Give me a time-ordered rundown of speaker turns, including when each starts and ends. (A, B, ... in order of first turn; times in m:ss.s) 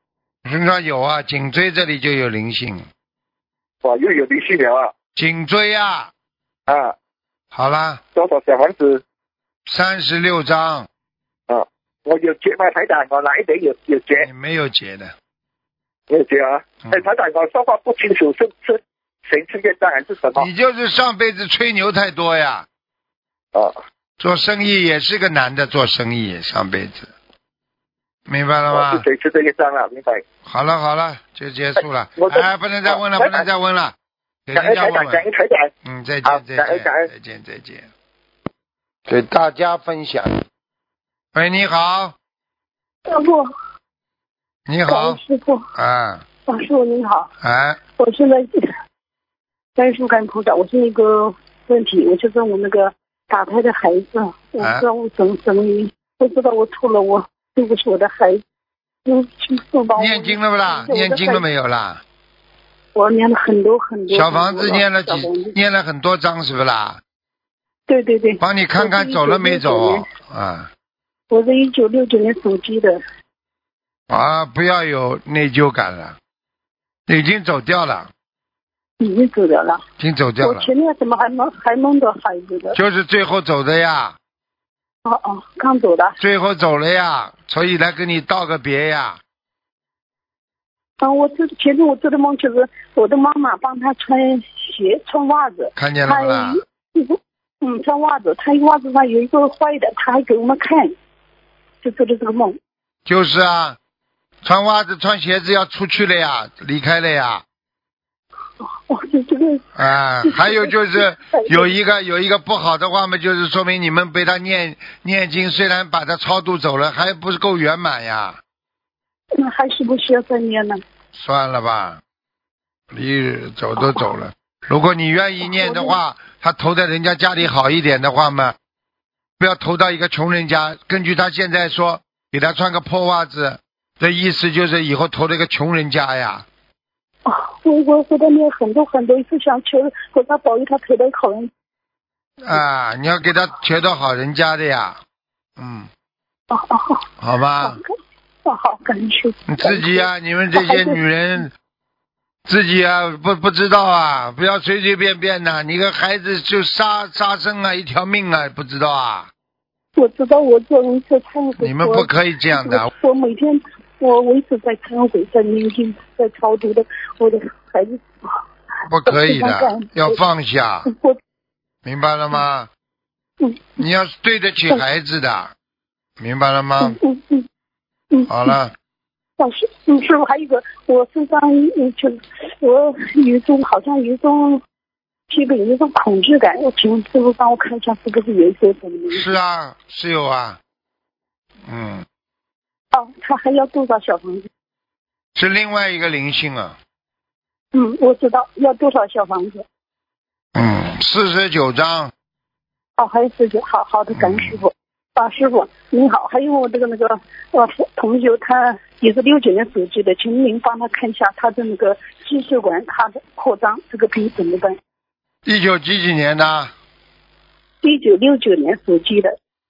0:00.4-0:02.9 A
0:03.8-0:04.9 B
0:05.2-0:06.1 A
0:06.7-0:06.9 B
0:07.5-0:08.0 A
0:08.2-0:09.0 B
0:09.7-0:10.9 A
0:11.5-0:14.3 B
0:14.2-0:15.1 A
0:16.1-0:20.5 B
0:20.4-0:22.7 A
0:24.2-0:27.1 A
0:28.3-0:29.0 A
0:28.7-0:30.2 B
0:30.4-0:33.9 A
0:32.2-0:33.4 B
0:34.5-0:35.2 A
0:34.6-0:35.7 B
0:35.8-0:37.9 A
0:36.3-0:37.1 B
0:39.1-0:40.4 A
0:41.4-0:42.2 A
0:43.1-0:43.5 C
0:44.7-0:45.2 A
0:44.9-0:45.7 C
0:45.8-0:46.2 A
0:46.5-0:47.3 C
0:47.4-0:47.8 A
0:48.0-0:48.7 C
0:49.8-0:58.4 C
0:54.6-0:54.8 A
0:59.1-1:01.4 C
1:00.0-1:02.0 A
1:03.0-1:05.6 C
1:04.1-1:07.0 A
1:07.9-1:10.1 C
1:08.4-1:10.7 A
1:11.3-1:13.0 C
1:14.1-1:16.2 A
1:17.1-1:18.1 A
1:19.0-1:19.8 C
1:20.0-1:20.7 A
1:20.4-1:22.8 C
1:22.8-1:24.2 A
1:25.0-1:26.2 C
1:26.2-1:29.2 A
1:31.0-1:40.9 C
1:35.8-1:36.6 A
1:41.8-1:42.6 C
1:43.1-1:43.8 A
1:44.4-1:47.4 A
1:48.6-1:49.7 C
1:49.8-1:58.4 A
1:50.2-1:51.7 C
1:59.4-2:00.8 C
2:01.1-2:02.0 A
2:02.9-2:08.6 A
2:03.8-2:04.1 C
2:05.4-2:06.0 C
2:09.4-2:16.5 A
2:17.2-2:21.5 C
2:22.4-2:25.0 A
2:25.6-2:25.9 A
2:26.5-2:27.0 C
2:27.2-2:27.8 A
2:27.6-2:27.9 C
2:28.4-2:31.0 C
2:29.5-2:31.5 A
2:32.5-2:39.3 A
2:40.0-2:48.4 C
2:41.6-2:42.9 A
2:48.9-2:50.9 A
2:49.0-2:50.2 C
2:50.9-2:51.2 C
2:51.8-2:52.7 A
2:53.4-2:53.7 C
2:53.8-2:55.5 A
2:56.2-2:57.0 A
2:56.8-2:57.5 C
2:58.1-2:58.6 C
2:58.3-2:58.7 A
2:59.4-3:04.6 C
3:05.3-3:09.3 C
3:09.1-3:10.6 A
3:11.7-3:12.0 A
3:12.9-3:14.5 C
3:15.4-3:16.8 A
3:17.7-3:19.6 C
3:20.6-3:22.1 A
3:23.0-3:34.8 C
3:24.1-3:24.6 A
3:35.4-3:36.7 A
3:37.8-3:39.4 C